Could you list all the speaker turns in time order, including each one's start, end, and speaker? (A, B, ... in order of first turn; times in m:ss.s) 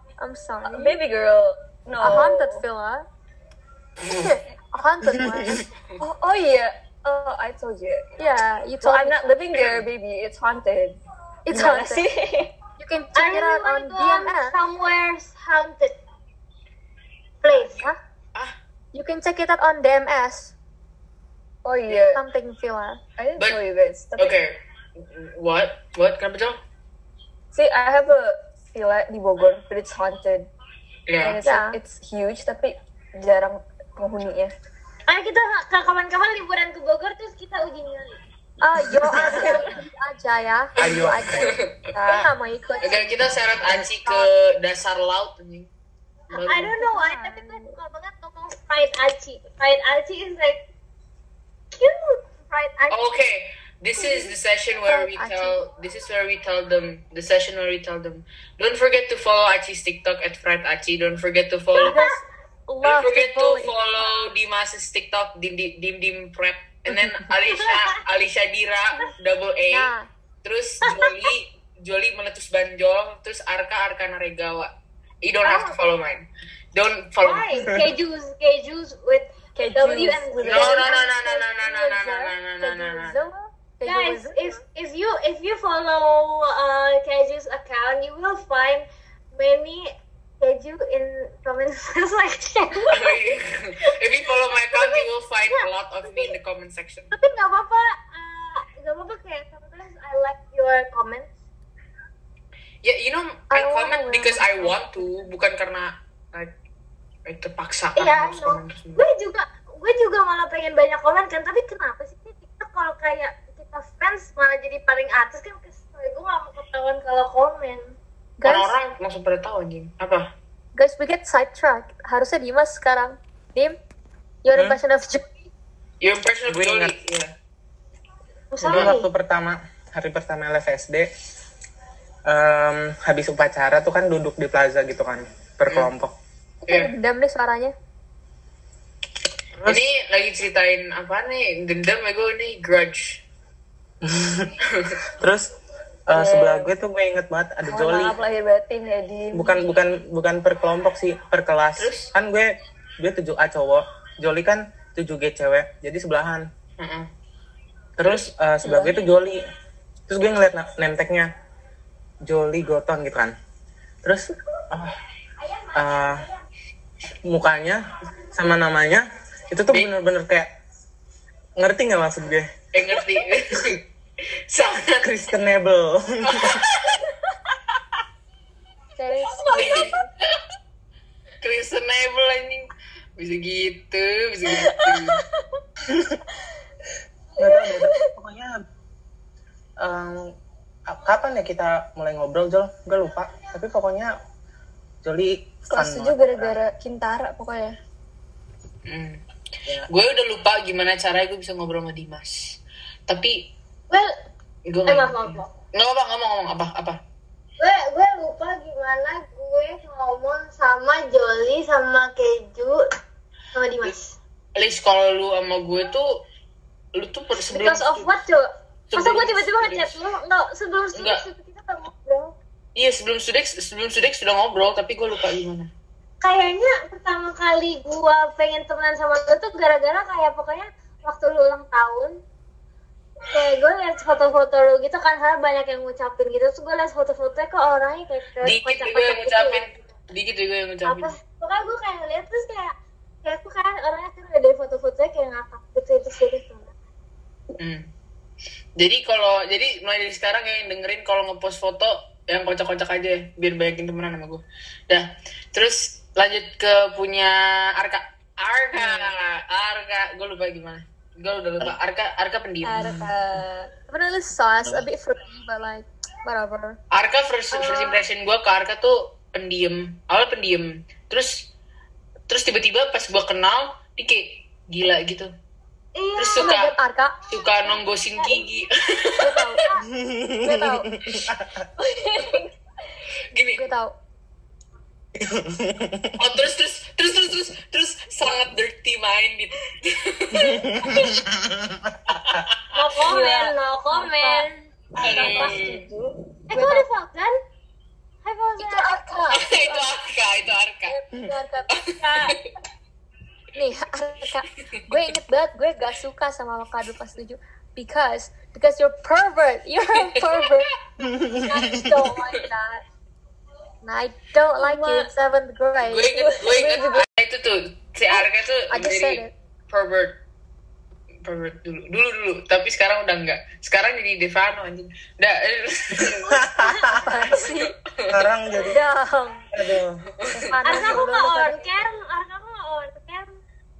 0:00.2-0:01.0 A
0:00.6-0:02.6 B
0:02.0-0:03.0 A
0:04.0-0:05.6 A
0:05.3-0:05.6 C
0:06.0-0:08.2 B
0:08.2-0:09.3 A
0:08.8-0:12.5 B
0:09.5-0:09.8 D
0:11.4-0:12.0 A
0:12.8-0:14.6 A
0:13.1-0:16.0 E
0:17.4-0:17.9 E
0:17.8-0:18.5 D
0:18.9-0:20.5 A
0:21.6-0:22.2 B
0:22.1-0:23.0 A
0:23.2-0:24.4 B
0:24.2-0:26.6 D
0:27.5-0:30.5 B
0:31.1-0:31.4 D
0:31.2-0:34.5 B
0:31.4-0:31.8 A
0:35.1-0:38.2 E
0:38.6-0:44.3 A
0:38.9-0:39.5 C
0:39.0-0:39.6 B
0:40.8-0:42.2 D
0:41.9-0:42.2 B
0:42.8-0:45.7 D
0:46.3-0:46.7 D
0:46.4-0:50.6 E
0:46.7-0:47.8 A
0:51.7-0:53.0 E
0:52.9-1:02.0 D
0:54.0-0:54.3 A
0:54.9-0:55.6 A
1:01.8-1:03.7 A
1:01.8-1:02.2 E
1:02.8-1:09.9 D
1:09.7-1:10.1 A
1:10.4-1:17.8 D
1:15.4-1:15.8 E
1:17.2-1:21.0 E
1:19.5-1:20.9 B
1:20.5-1:23.2 D
1:20.8-1:24.6 A
1:23.8-1:33.2 E
1:32.9-1:37.1 D
1:34.5-1:36.3 E
1:37.1-1:41.3 E
1:42.8-1:46.6 D
1:43.5-1:45.3 A
1:47.3-1:49.0 D
1:48.0-1:58.0 E
1:58.4-1:58.7 A
1:58.4-2:00.3 D
2:00.7-2:03.8 A
2:04.4-2:05.3 A
2:04.5-2:04.8 C
2:06.0-2:07.3 D
2:06.5-2:06.9 C
2:08.5-2:09.1 E
2:08.6-2:11.1 C
2:08.7-2:09.0 D
2:12.2-2:16.1 C
2:16.7-2:17.7 A
2:19.6-2:23.2 D
2:24.0-2:24.5 C
2:24.6-2:25.0 D
2:25.2-2:25.5 C
2:26.1-2:28.2 C
2:26.1-2:26.7 B
2:27.6-2:29.7 B
2:29.3-2:36.5 C
2:31.8-2:32.1 D
2:36.8-2:37.1 D
2:38.0-2:39.4 C
2:38.6-2:39.1 B
2:40.1-2:41.3 C
2:42.2-2:43.3 C
2:44.0-2:45.0 C
2:45.7-2:46.3 C
2:47.2-2:50.5 C
2:51.6-2:52.5 C
2:52.7-2:53.8 D
2:54.5-2:55.2 D
2:55.0-2:56.6 C
2:56.2-2:57.0 D
2:59.0-3:00.1 A
2:59.5-3:00.0 D
3:01.4-3:05.2 D
3:04.5-3:05.2 B
3:07.4-3:08.6 C
3:07.4-3:07.9 B
3:09.8-3:10.4 C
3:10.9-3:14.2 C
3:15.0-3:16.6 C
3:15.7-3:17.7 B
3:18.8-3:19.2 D
3:19.9-3:23.5 D
3:24.6-3:27.0 D
3:24.8-3:25.5 E
3:27.6-3:32.8 E
3:33.5-3:34.2 E
3:34.5-3:36.1 D
3:36.9-3:38.1 D
3:37.5-3:42.3 E
3:38.9-3:39.9 D
3:40.9-3:41.2 D
3:42.8-3:45.7 D
3:46.2-3:52.2 E
3:53.3-3:59.9 E
3:58.4-4:01.1 D
4:00.8-4:06.7 E
4:07.6-4:07.9 D
4:08.8-4:23.1 D
4:18.8-4:19.1 A
4:22.6-4:23.7 B
4:23.9-4:26.8 A
4:26.9-4:31.5 D
4:32.3-4:35.3 D
4:35.9-4:36.7 E
4:36.2-4:36.7 D
4:36.4-4:37.3 A
4:37.3-4:39.5 D
4:37.5-4:39.8 E
4:39.2-4:39.7 A
4:39.9-4:41.7 C
4:40.4-4:40.9 A
4:41.8-4:42.5 B
4:43.3-4:43.7 D
4:43.6-4:44.0 A
4:45.2-4:46.2 C
4:46.2-4:51.1 D
4:50.3-4:52.4 C
4:52.2-4:52.6 D
4:52.7-4:54.5 E
4:53.1-4:53.5 B
4:53.9-4:54.5 A
4:54.9-4:56.2 B
4:55.0-4:55.8 D
4:56.5-4:57.4 E
4:56.5-4:56.8 A
4:58.2-4:59.0 E
4:58.6-4:59.9 A
4:59.3-5:01.0 D
5:00.9-5:02.4 A
5:01.7-5:02.4 D
5:03.5-5:10.7 A
5:10.0-5:10.7 D
5:11.0-5:12.0 C
5:11.4-5:12.8 A
5:13.8-5:16.2 A
5:14.6-5:15.1 B
5:15.8-5:20.2 D
5:16.1-5:17.0 B
5:18.1-5:19.3 A
5:21.2-5:26.3 D
5:26.0-5:27.1 C
5:26.3-5:27.0 E
5:26.9-5:27.7 A
5:27.3-5:28.3 D
5:28.1-5:28.8 C
5:28.5-5:29.5 A
5:29.5-5:30.0 C
5:30.2-5:30.6 D
5:30.4-5:31.6 A
5:30.6-5:33.3 E